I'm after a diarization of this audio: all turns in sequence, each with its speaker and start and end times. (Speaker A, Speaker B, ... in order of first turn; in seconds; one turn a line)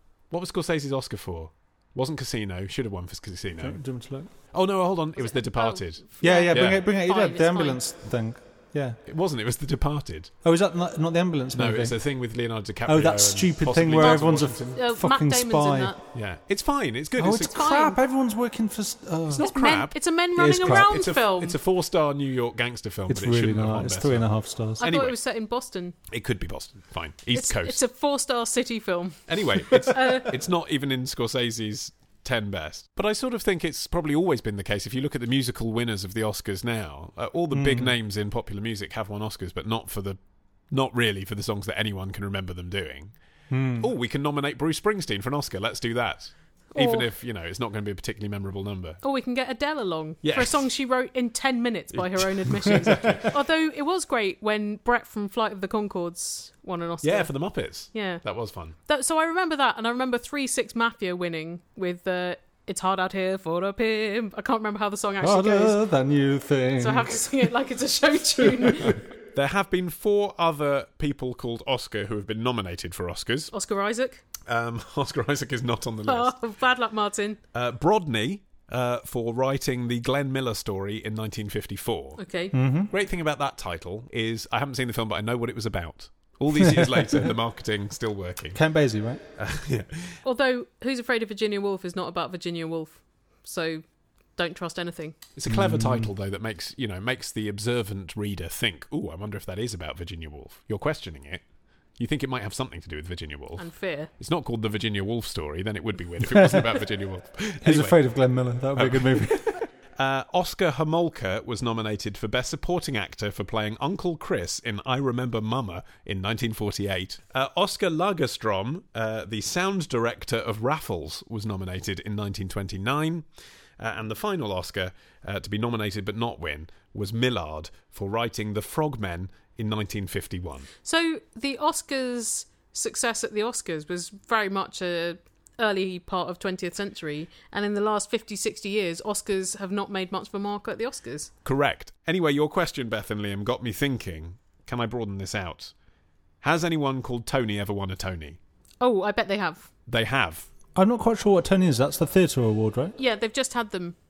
Speaker A: 0.3-3.8
Speaker B: 3.6-4.3
Speaker A: 4.5-6.8
Speaker C: 5.2-7.8
Speaker B: 6.2-9.0
Speaker A: 9.1-10.3
Speaker B: 10.4-12.0
Speaker A: 11.5-14.8
Speaker B: 12.9-15.9
Speaker C: 14.0-16.0
Speaker A: 16.1-17.8
Speaker B: 17.2-19.5
Speaker C: 17.5-18.0
Speaker A: 19.3-25.2
Speaker C: 19.4-21.6
Speaker B: 20.4-21.1
Speaker B: 23.1-24.8
Speaker C: 24.8-25.9
Speaker A: 26.1-27.8
Speaker C: 27.3-29.2
Speaker A: 29.3-40.2
Speaker C: 29.9-30.3
Speaker B: 37.5-38.0
Speaker A: 40.7-43.1
Speaker B: 43.5-43.9
Speaker A: 43.8-49.0
Speaker C: 46.8-47.1
Speaker C: 49.0-57.3
Speaker A: 50.2-50.7
Speaker A: 52.0-53.3
Speaker A: 57.0-58.8
Speaker C: 57.9-58.2
Speaker C: 58.9-65.8
Speaker B: 65.2-67.2
Speaker C: 66.8-69.0
Speaker A: 69.3-73.5
Speaker C: 73.5-74.2
Speaker A: 74.5-76.4
Speaker C: 76.1-77.4
Speaker A: 77.5-82.2
Speaker C: 82.2-82.5
Speaker B: 82.5-82.9
Speaker A: 82.9-88.6
Speaker B: 86.6-87.3
Speaker B: 88.5-89.2
Speaker A: 89.4-90.2
Speaker C: 90.2-93.8
Speaker C: 94.4-95.2
Speaker A: 95.4-101.4
Speaker B: 95.5-96.1
Speaker A: 102.0-108.0
Speaker C: 103.6-104.1
Speaker B: 106.2-106.6
Speaker B: 107.6-109.6
Speaker A: 108.8-123.3
Speaker A: 123.8-130.7
Speaker C: 130.8-141.3
Speaker A: 141.4-145.7
Speaker A: 146.4-148.4
Speaker C: 148.8-149.7
Speaker A: 149.9-150.5
Speaker B: 150.8-152.9
Speaker C: 153.0-154.0